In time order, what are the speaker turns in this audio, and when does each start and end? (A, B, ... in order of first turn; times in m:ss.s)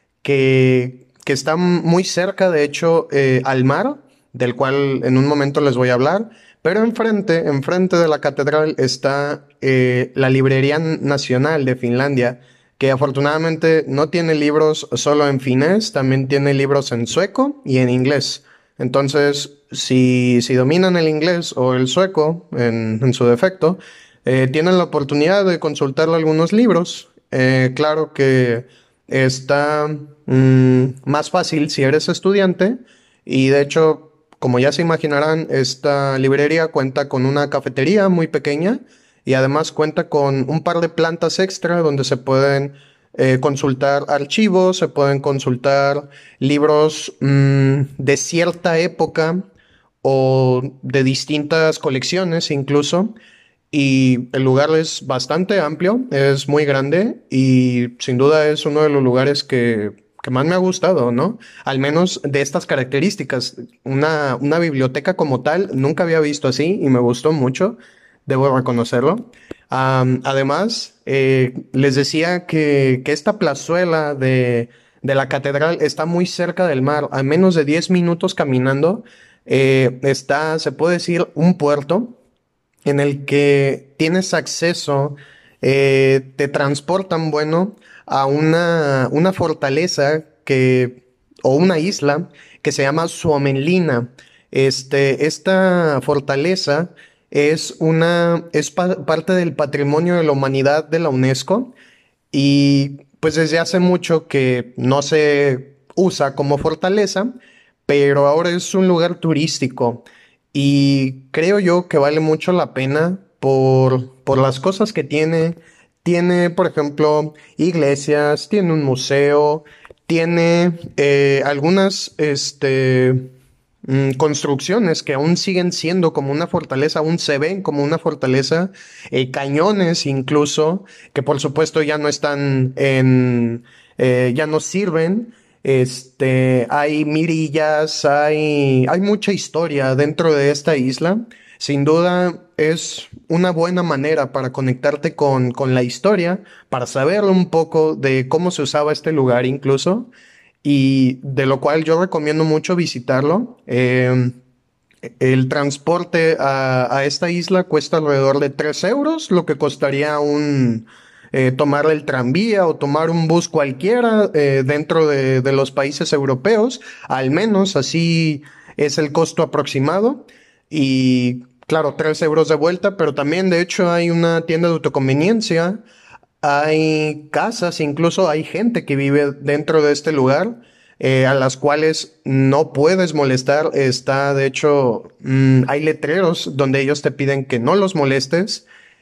0:00.2-0:49.4 A
0:50.0-0:53.2 A
0:53.7-1:22.2 A
1:22.8-1:41.7 A
1:42.3-1:47.4 A
1:47.9-2:03.3 A
2:03.9-2:30.1 A
2:30.6-2:34.4 A
2:35.2-2:55.8 A
2:56.4-3:08.6 A